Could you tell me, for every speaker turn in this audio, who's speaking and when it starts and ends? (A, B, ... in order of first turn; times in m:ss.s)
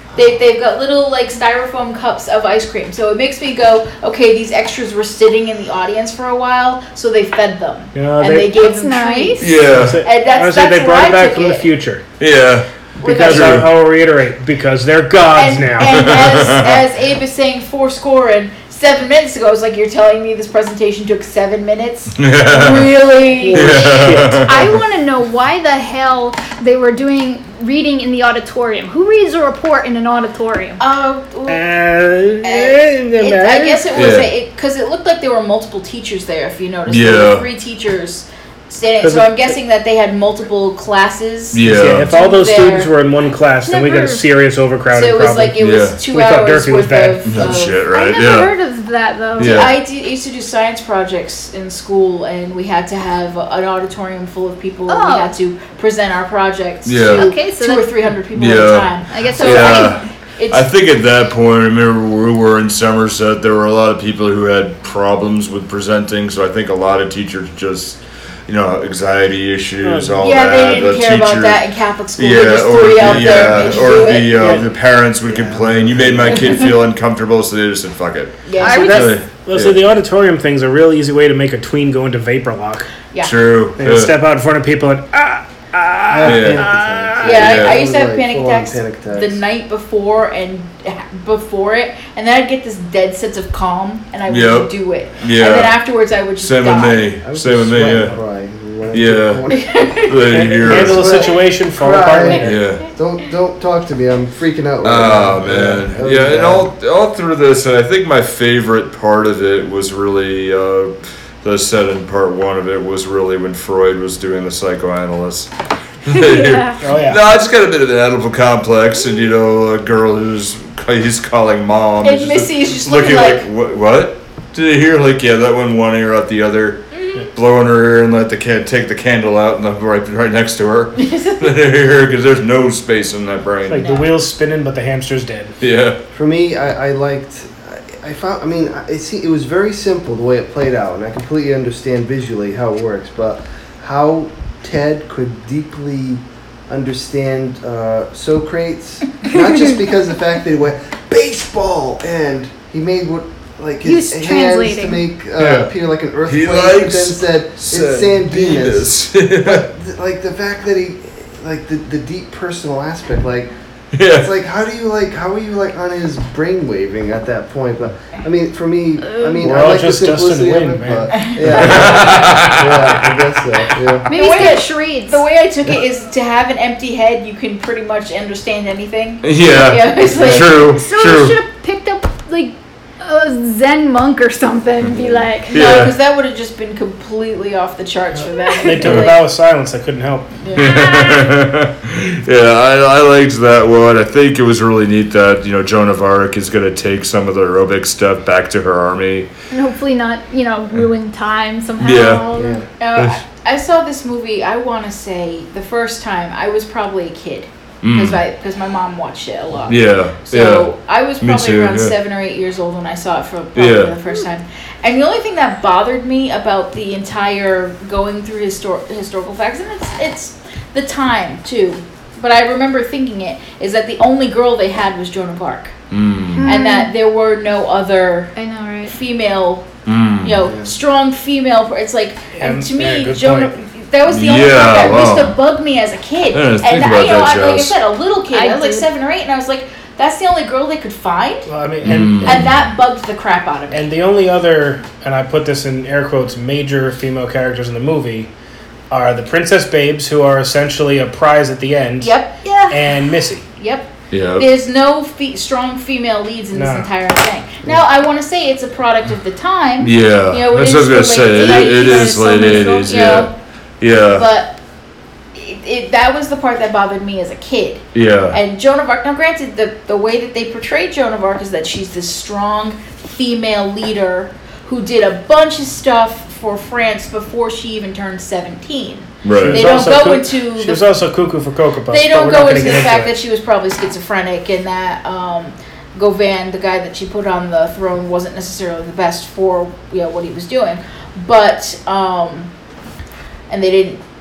0:00.1-0:11.7 A
0:07.9-0:08.5 B
0:08.5-0:09.6 C
0:09.4-0:10.0 D
0:09.7-0:12.0 B
0:12.2-0:12.6 D
0:13.0-0:16.1 B
0:13.0-0:13.7 A
0:13.2-0:13.7 D
0:15.3-0:23.8 A
0:15.9-0:16.8 D
0:22.2-0:22.9 D
0:23.4-0:24.5 B
0:23.5-0:24.8 D
0:24.4-0:30.8 C
0:30.8-0:31.6 A
0:31.5-0:33.8 B
0:32.4-0:42.9 A
0:33.9-0:34.3 D
0:36.9-0:37.5 D
0:39.0-0:39.6 B
0:41.5-0:42.1 D
0:41.6-0:47.4 B
0:43.6-0:44.3 C
0:44.9-0:47.8 A
0:45.6-0:46.0 D
0:47.2-0:48.5 D
0:47.9-0:49.7 C
0:49.4-0:49.7 D
0:49.4-1:00.6 A
0:54.9-0:55.3 C
0:56.8-0:57.3 D
0:57.1-0:57.9 C
0:58.3-1:11.6 D
0:59.1-0:59.9 C
1:09.8-1:10.2 B
1:10.2-1:14.5 A
1:12.2-1:19.8 D
1:13.1-1:14.6 B
1:15.3-1:16.7 E
1:18.4-1:19.1 A
1:18.6-1:19.2 C
1:18.6-1:22.9 B
1:23.2-1:24.1 D
1:23.8-1:27.4 B
1:26.1-1:29.4 E
1:26.2-1:26.6 D
1:27.2-1:37.1 A
1:27.3-1:27.7 D
1:34.3-1:35.8 D
1:36.4-1:38.1 D
1:37.2-1:39.9 E
1:38.9-1:39.4 D
1:39.5-1:40.2 A
1:40.0-1:41.2 D
1:40.3-1:42.6 B
1:40.6-1:46.7 E
1:42.4-1:42.8 D
1:44.8-1:55.5 D
1:56.0-2:06.8 D
1:56.1-1:56.8 C
1:56.8-1:57.2 B
2:02.0-2:03.4 A
2:06.9-2:07.3 A
2:07.3-2:13.8 D
2:11.0-2:11.5 A
2:13.7-2:15.6 B
2:13.7-2:14.1 A
2:15.6-2:16.0 D
2:16.1-2:43.5 E
2:29.3-2:29.6 C
2:33.8-2:35.0 C
2:35.4-2:35.7 D
2:36.2-2:39.6 D
2:43.9-2:44.3 D
2:44.1-2:54.1 E
2:49.0-2:49.4 C
2:49.4-2:51.2 B
2:51.1-2:52.4 A
2:51.5-2:53.1 D
2:54.1-2:55.2 C
2:54.1-3:00.7 A
2:59.2-3:01.4 D
3:00.6-3:05.6 C
3:04.8-3:05.9 D
3:05.5-3:09.2 A
3:08.2-3:10.3 B
3:08.5-3:08.8 C
3:08.8-3:09.1 D
3:10.4-3:10.7 A
3:10.5-3:19.3 D
3:10.5-3:11.4 C
3:19.5-3:22.6 C
3:21.8-3:22.3 D
3:22.3-3:22.6 E
3:22.8-3:45.7 A
3:22.9-3:23.2 D
3:27.8-3:28.2 D
3:29.7-3:30.7 D
3:31.2-3:31.9 D
3:33.5-3:33.9 D
3:45.9-3:46.5 D
3:46.3-3:46.9 C
3:46.4-3:48.3 A
3:48.4-3:49.0 C
3:48.9-3:49.7 A
3:49.8-3:50.4 D
3:50.2-4:01.5 A
3:50.5-3:50.7 E
3:52.4-3:53.6 B
3:54.1-3:55.3 D
3:56.3-3:57.7 D
3:58.3-3:58.9 C
4:01.5-4:02.5 B
4:01.8-4:02.5 D
4:02.2-4:03.9 A
4:03.7-4:08.3 B
4:08.9-4:12.1 B
4:12.0-4:12.4 A
4:12.4-4:12.9 C
4:12.7-4:13.4 B
4:13.6-4:23.3 A
4:14.1-4:14.5 D
4:16.5-4:16.9 B
4:19.8-4:23.3 D
4:21.3-4:23.0 C
4:23.8-4:24.3 D
4:24.1-4:24.6 A
4:25.3-4:40.8 A
4:27.9-4:28.4 D
4:39.2-4:39.7 D
4:39.3-4:43.1 B
4:41.9-4:52.5 A
4:53.5-4:54.0 A